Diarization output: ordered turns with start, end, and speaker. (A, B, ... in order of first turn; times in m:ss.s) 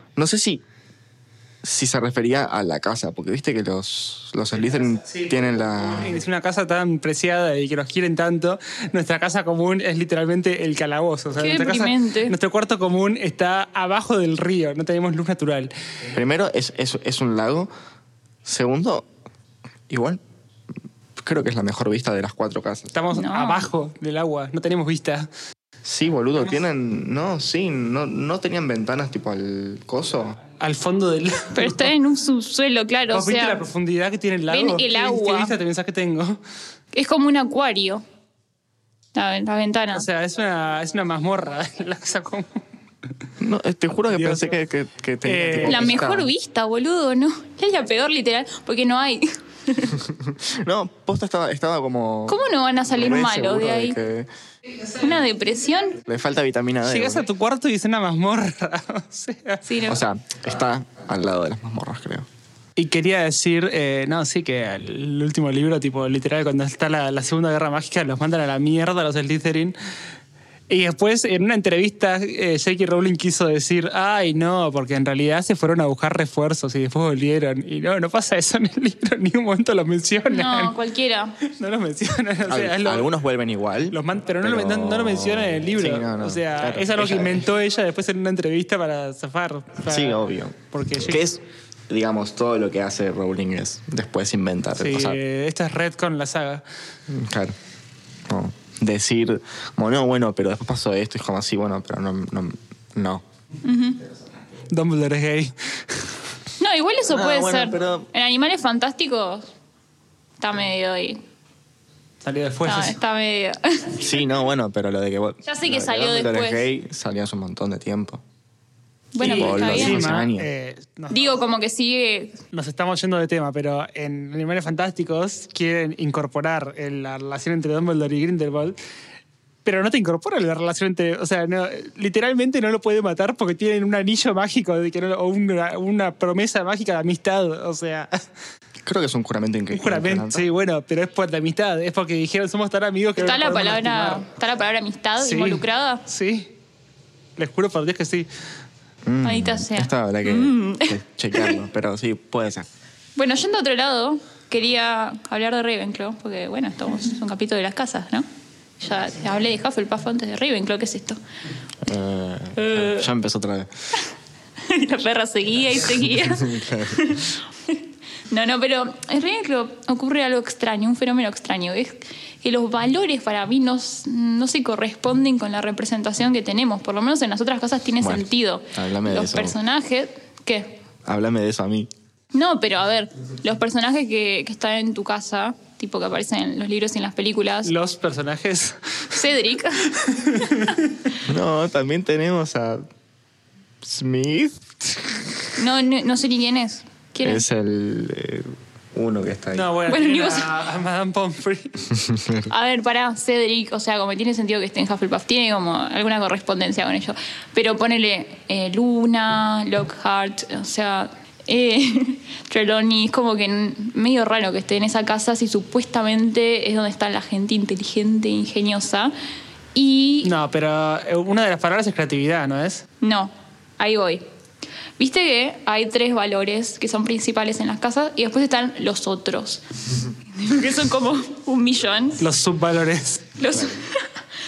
0:00.2-0:00.6 A
0:01.6-0:06.2 A
0:05.0-0:15.7 B
0:11.4-0:12.3 C
0:16.1-0:17.7 A
0:18.4-0:19.1 A
0:19.9-0:20.2 A
0:21.2-0:22.9 A
0:22.9-0:25.3 B
0:23.1-0:23.6 C
0:25.8-0:30.4 A
0:30.6-0:31.9 B
0:31.6-0:33.6 C
0:33.1-0:36.4 B
0:34.5-0:35.6 C
0:36.9-0:38.0 C
0:39.2-0:40.1 C
0:39.9-0:42.6 B
0:43.4-0:46.3 A
0:44.1-0:44.5 B
0:45.2-0:46.0 B
0:45.6-0:50.0 C
0:50.0-0:54.3 A
0:52.3-0:54.0 C
0:55.0-0:56.0 C
0:56.0-0:57.3 A
0:56.8-0:59.6 B
0:59.7-1:00.0 C
0:59.9-1:02.3 A
1:02.8-1:09.8 B
1:10.7-1:20.8 B
1:20.3-1:21.4 C
1:21.4-1:23.1 B
1:22.5-1:27.5 A
1:23.9-1:30.2 B
1:29.9-1:35.2 A
1:30.7-1:31.2 B
1:34.8-1:36.6 B
1:37.1-1:37.6 A
1:38.3-1:43.2 A
1:43.6-1:44.0 C
1:44.7-1:46.1 B
1:46.6-1:49.5 C
1:47.1-1:48.1 A
1:50.4-1:51.2 C
1:52.2-1:53.0 B
1:52.6-1:54.0 C
1:54.0-1:58.2 A
1:55.4-1:56.7 C
1:59.1-2:00.1 C
1:59.2-2:01.2 B
1:59.2-2:00.5 A
2:01.1-2:02.4 C
2:02.5-2:08.8 B
2:09.6-2:18.2 B
2:18.8-2:20.5 A
2:19.7-2:24.2 B
2:23.2-2:26.0 C
2:25.2-2:26.5 B
2:27.4-2:28.3 B
2:29.1-2:32.7 A
2:29.2-2:31.5 C
2:33.2-2:38.3 C
2:38.8-2:41.2 C
2:41.8-2:43.7 A
2:42.6-2:43.1 C
2:44.6-3:00.8 C
2:46.2-2:47.2 A
2:58.0-2:59.6 A
3:01.0-3:01.9 A
3:02.3-3:07.7 C
3:07.6-3:09.2 B
3:09.1-3:09.9 C
3:09.9-3:10.9 B
3:11.2-3:12.8 A
3:13.8-3:15.5 A
3:15.6-3:17.4 C
3:17.2-3:19.7 A
3:19.5-3:21.8 B
3:19.9-3:20.5 C
3:22.0-3:22.5 A
3:22.5-3:39.1 C
3:39.8-3:40.3 C
3:40.2-3:42.8 B
3:43.0-3:44.2 C
3:45.0-3:49.6 C
3:50.3-3:52.2 C
3:52.2-3:53.3 B
3:53.4-3:54.1 C